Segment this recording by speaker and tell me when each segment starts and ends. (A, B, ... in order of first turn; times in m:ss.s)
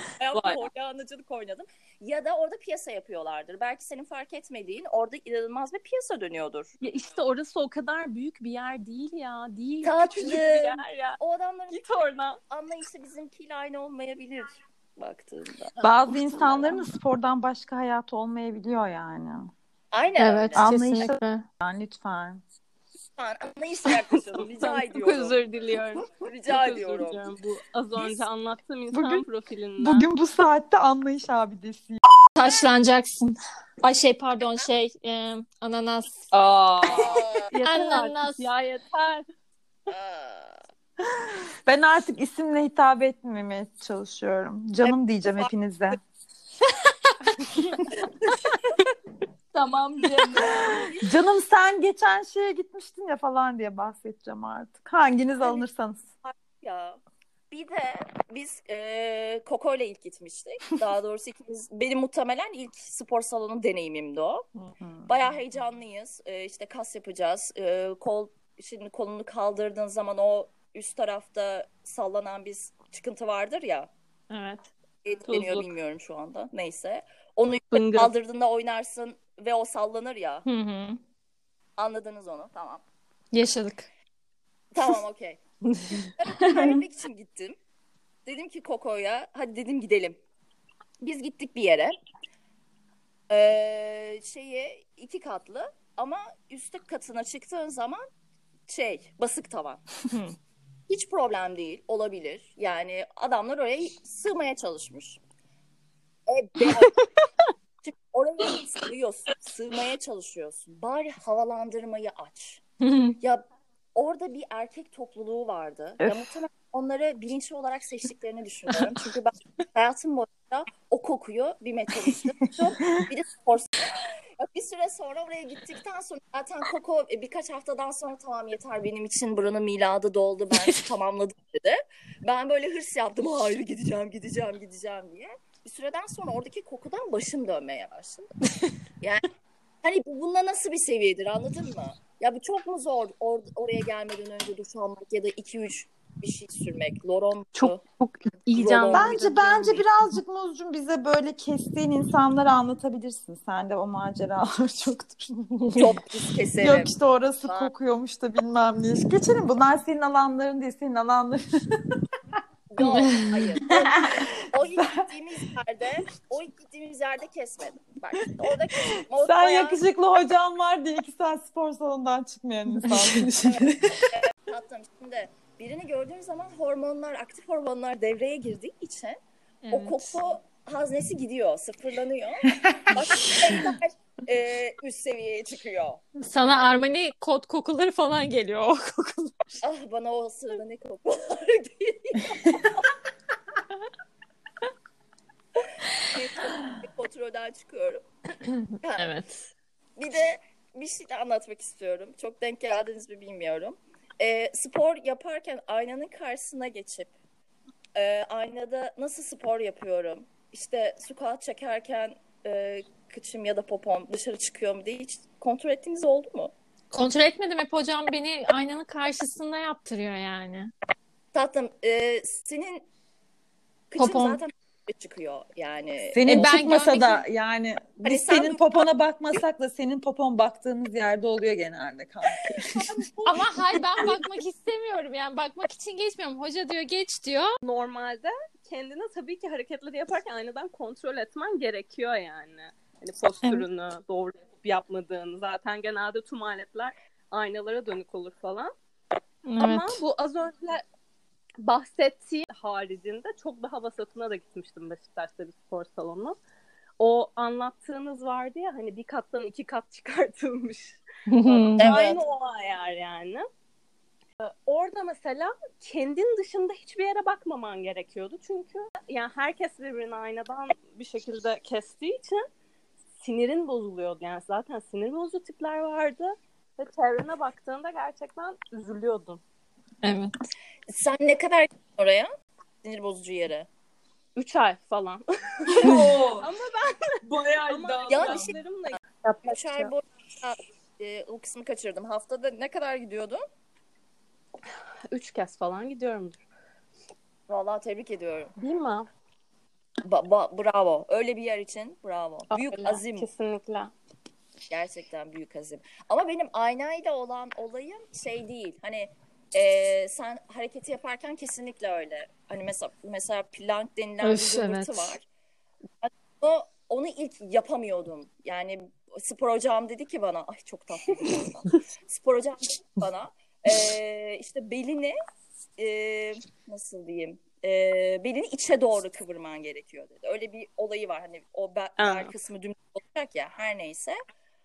0:00.2-0:06.7 A
0:06.8-0:11.2 B
0:09.8-0:11.8 A
0:11.7-0:12.4 B
0:12.5-0:15.8 A
0:15.8-0:19.5 C
0:16.3-0:16.8 A
0:19.9-0:20.6 A
0:20.2-0:21.5 D
0:20.6-0:22.4 C
0:23.0-0:25.4 A
0:24.2-0:30.1 B
0:26.2-0:27.3 A
0:28.9-0:29.2 C
0:29.8-0:32.0 C
0:32.4-0:36.3 D
0:36.3-0:37.3 E
0:36.9-0:37.5 A
0:37.5-0:39.3 B
0:37.6-0:38.4 D
0:39.9-0:40.6 A
0:41.7-0:46.0 C
0:49.5-0:50.9 E
0:50.4-0:51.0 A
0:51.0-0:56.1 C
0:56.2-1:04.5 A
1:04.8-1:05.1 C
1:05.0-1:13.9 A
1:14.3-1:14.7 D
1:15.0-1:20.4 A
1:15.3-1:15.7 B
1:17.7-1:18.1 B
1:20.5-1:21.0 D
1:21.8-1:22.8 A
1:23.3-1:23.9 D
1:24.7-1:25.4 A
1:25.7-1:26.1 D
1:26.0-1:27.6 A
1:28.3-1:30.2 A
1:31.0-1:32.0 A
1:33.3-1:38.0 A
1:38.7-1:39.8 A
1:40.9-1:45.2 A
1:46.3-1:46.9 A
1:47.8-1:52.6 A
1:52.8-1:53.2 D
1:53.2-2:18.3 A
1:56.0-1:56.3 C
2:10.6-2:10.9 D
2:19.0-2:19.3 A
2:19.8-2:27.8 A
2:27.6-2:29.8 B
2:28.6-2:29.2 A
2:28.9-2:35.5 C
2:35.8-2:36.9 A
2:36.6-2:41.8 C
2:37.4-2:37.7 A
2:42.7-2:49.8 A
2:42.8-2:43.3 D
2:43.7-2:45.0 C
2:49.1-2:54.1 C
2:52.8-2:53.3 D
2:53.4-2:59.2 A
2:59.6-3:00.2 D
2:59.7-3:06.0 A
3:06.2-3:09.6 D
3:09.6-3:12.8 A
3:16.0-3:18.0 A
3:18.8-3:19.1 A
3:19.0-3:19.5 D
3:20.0-3:27.1 A
3:28.0-3:36.5 A
3:36.9-3:40.7 D
3:41.3-3:42.8 A
3:43.9-3:46.9 A
3:44.0-3:44.4 D
3:46.1-3:52.9 C
3:46.3-3:47.2 D
3:48.0-3:48.7 A
3:53.2-3:57.6 D
3:57.6-4:08.7 B
4:09.4-4:10.0 D
4:09.6-4:10.8 B
4:11.6-4:16.4 B
4:17.0-4:23.5 B
4:21.3-4:21.9 D
4:21.8-4:22.2 A
4:24.4-4:32.4 B
4:33.2-4:39.4 B
4:40.0-4:40.3 D
4:40.9-4:42.3 A
4:42.8-4:43.7 A
4:44.4-4:49.9 B
4:45.7-4:46.5 E
4:47.2-4:48.5 E
4:48.1-4:48.5 A
4:49.4-4:53.4 A
4:55.1-4:56.4 B
4:57.5-4:58.5 A
4:58.6-4:59.1 B
5:00.0-5:03.3 A
5:02.5-5:03.9 B
5:04.7-5:15.2 A
5:14.2-5:15.2 D
5:16.0-5:25.2 A
5:25.8-5:34.2 A
5:32.0-5:32.3 B